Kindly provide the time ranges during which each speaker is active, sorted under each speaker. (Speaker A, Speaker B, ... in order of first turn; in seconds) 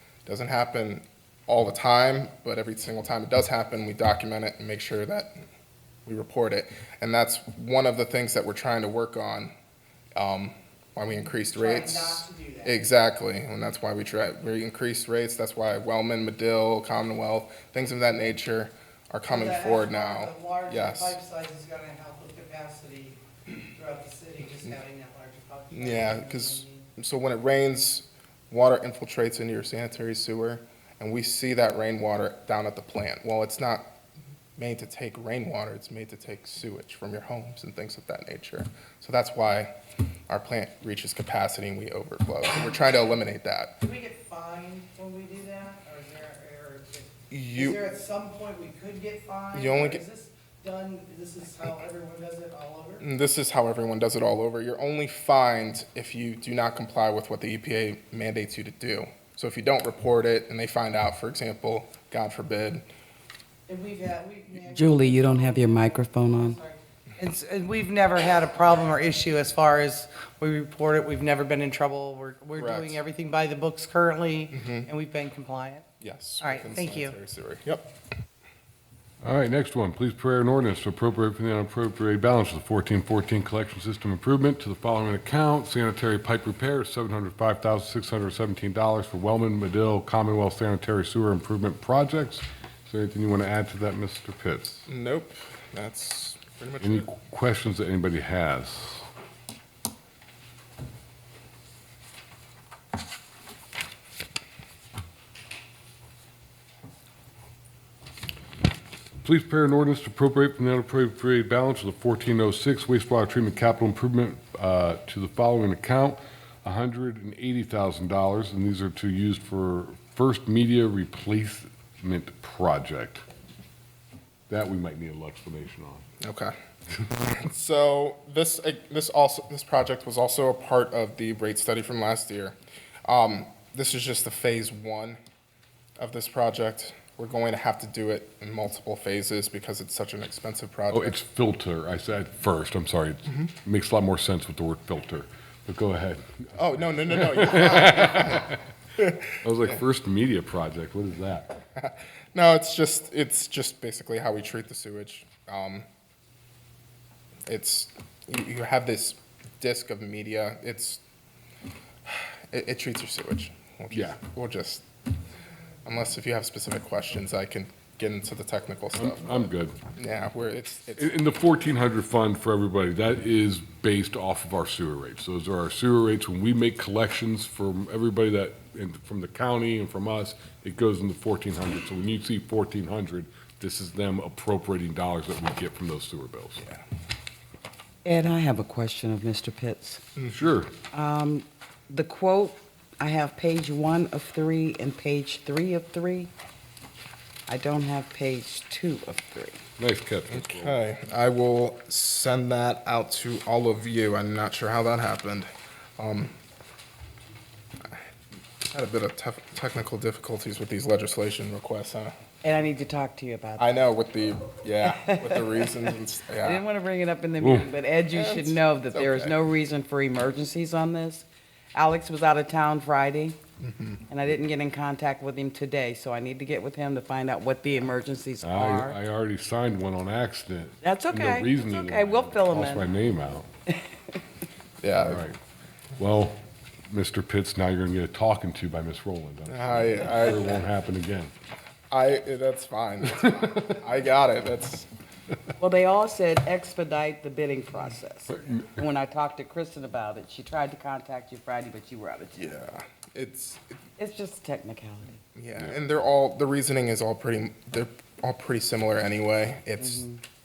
Speaker A: 0.2-5.3, 6.0-9.5, 10.2-21.2, 25.7-33.9, 34.5-39.7, 40.3-43.8, 47.3-47.8, 49.5-50.0, 53.0-62.8, 72.6-73.0, 74.5-74.9, 76.0-77.9, 94.9-97.1, 126.2-126.5, 127.3-135.2, 136.0-141.2, 146.6-149.8, 151.8-155.8, 157.5-161.0, 162.1-164.8, 165.8-169.3, 169.9-171.2, 200.3-206.3, 208.7-212.1, 213.6-216.6, 218.1-219.3, 223.6-224.0, 234.8-235.2, 239.5-240.6, 241.9-244.9, 252.4-253.8, 255.3-260.1
Speaker B: 11.5-12.9, 19.3-26.9, 43.8-53.0, 63.7-75.9, 76.4-77.1
Speaker C: 64.7-66.6, 188.0-190.0, 190.9-196.3, 197.5-199.6, 212.4-213.7, 214.8-223.4, 224.1-229.0, 230.8-232.9, 245.6-252.5, 254.0-255.2, 259.8-260.2
Speaker D: 79.2-94.9, 96.8-99.1, 109.2-123.2, 124.5-126.0, 140.9-148.6, 149.4-151.6, 168.9-169.8, 171.0-186.6, 190.2-190.7, 199.8-200.8, 217.4-217.7, 228.4-233.5, 235.0-235.4, 236.0-241.3, 248.3-248.8